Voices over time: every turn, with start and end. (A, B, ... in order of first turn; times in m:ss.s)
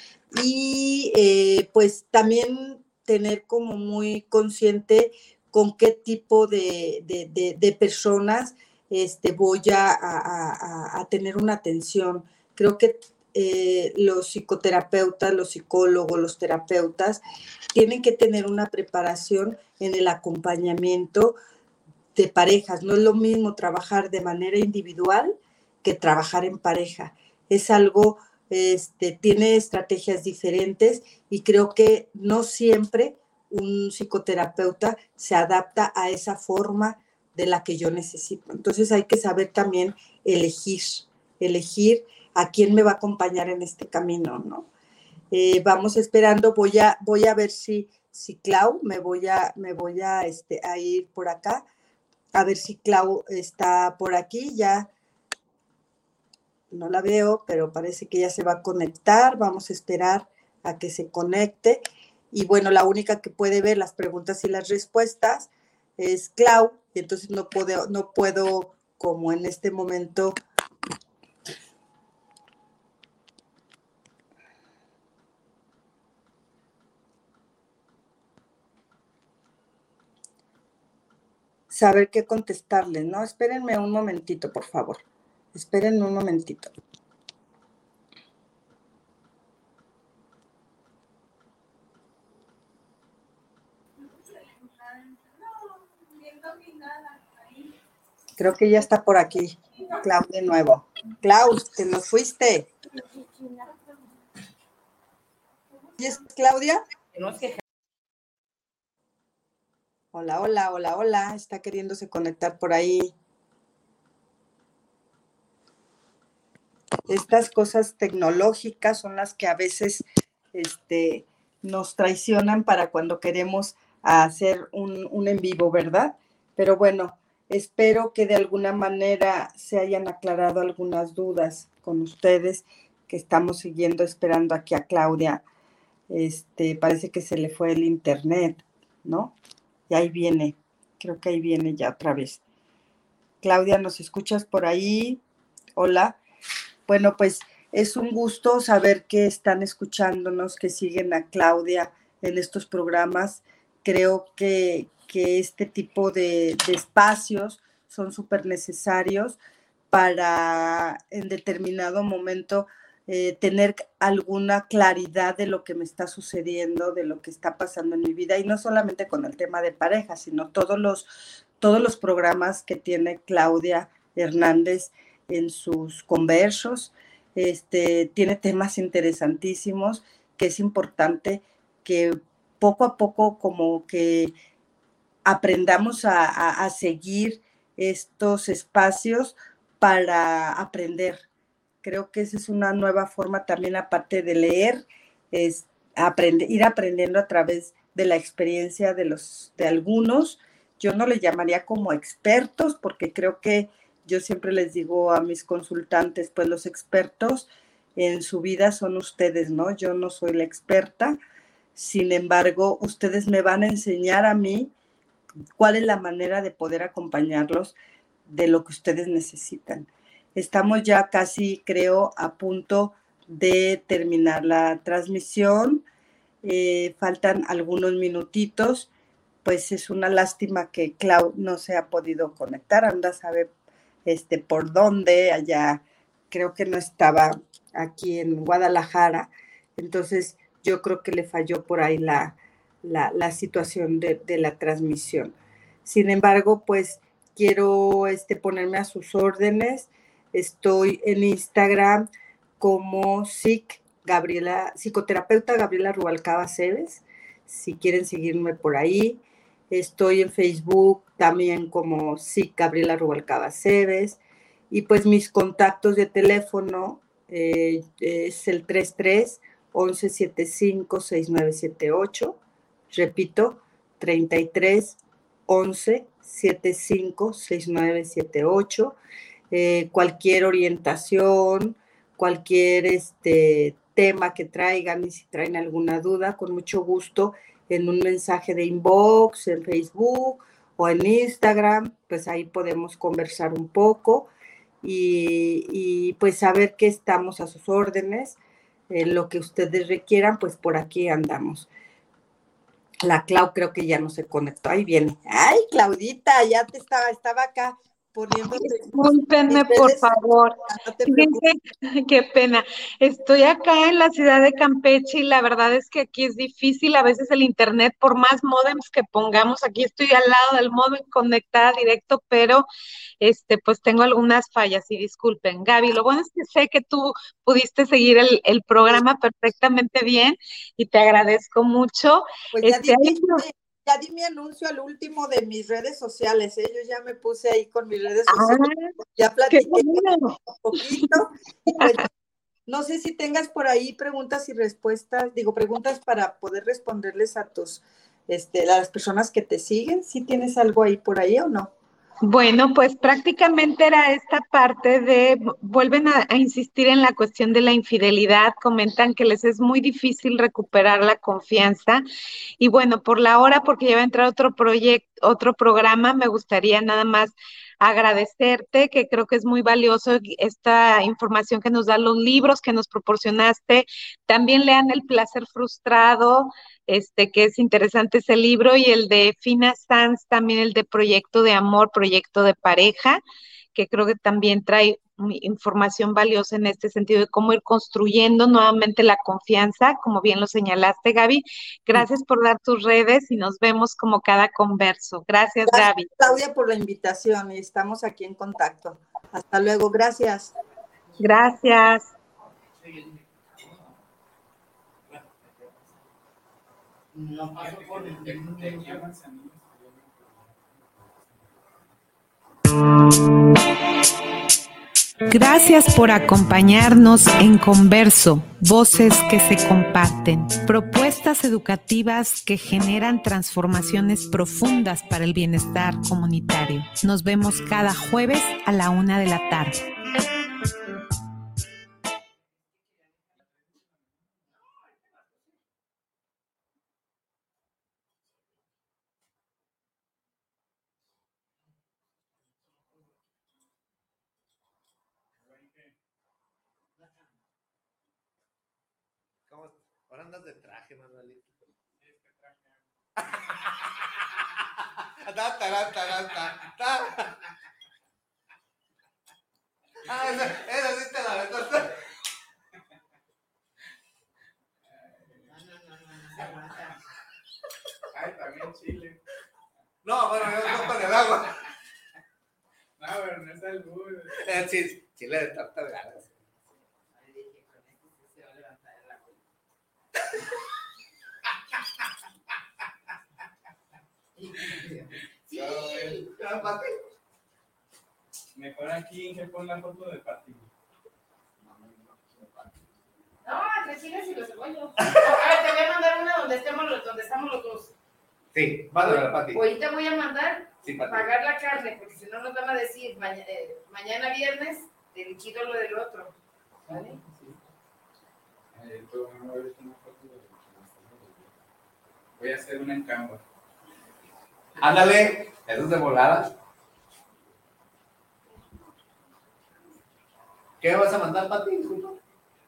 0:00.3-0:17.2 A
0:17.7-0:21.4 A
0:22.1-0:44.7 A
0:45.3-0:51.6 A
0:52.3-0:54.9 A
0:56.7-1:10.4 A
1:21.7-1:25.0 A
1:25.5-1:26.7 A
1:38.4-1:42.7 A
1:46.0-1:46.8 A
1:47.1-1:47.6 B
1:50.1-1:53.1 A
1:57.1-2:15.4 A
2:16.1-2:19.4 A
2:19.9-2:22.4 A
2:23.4-2:25.2 A
2:25.8-2:26.2 A
2:26.9-2:39.4 A
2:39.9-2:51.1 A
2:51.6-3:04.3 A
3:05.2-3:11.2 A
3:11.8-3:31.2 A
3:31.8-3:34.7 A
3:35.6-3:45.8 A
3:46.4-3:48.9 A
3:49.4-3:53.5 A
3:54.0-4:12.0 A
4:12.6-4:19.2 A
4:19.7-4:24.2 A
4:24.7-4:32.4 A
4:32.9-4:39.0 A
4:39.5-4:54.3 A
4:54.8-4:58.4 A
4:58.9-5:01.7 A
5:03.0-5:11.4 A
5:08.5-5:22.6 C
5:23.2-5:33.4 C
5:32.5-5:42.1 A
5:38.3-5:38.7 C
5:39.5-5:41.1 C
5:42.7-5:51.7 A
5:52.2-6:02.0 C
6:02.6-6:23.2 C
6:23.7-6:36.4 C
6:35.6-6:40.5 A
6:41.2-6:42.1 C
6:42.8-6:43.8 B
6:45.5-6:45.9 B
6:47.1-6:49.0 B
6:47.6-6:51.7 D
6:55.3-7:09.8 C
7:25.5-7:25.9 D
7:29.5-7:31.5 E
7:32.0-7:32.8 D
7:33.3-7:33.9 E
7:35.2-7:37.4 E
7:40.0-7:42.0 E
7:45.1-7:45.4 D
7:45.4-7:47.0 B
7:48.1-7:49.2 D
7:50.0-7:51.6 E
7:53.0-7:54.5 D
7:54.4-7:56.2 E
7:57.1-7:59.4 B
8:04.4-8:06.5 B
8:05.5-8:06.2 D
8:06.3-8:06.8 E
8:08.5-8:10.7 D
8:11.6-8:12.7 E
8:13.4-8:17.9 B
8:18.5-8:19.6 E
8:19.0-8:26.3 B
8:20.8-8:21.3 E
8:26.8-8:27.6 D
8:26.9-8:27.2 B
8:28.7-8:31.5 D
8:32.4-8:33.4 D
8:34.8-8:36.5 E
8:40.8-8:42.2 E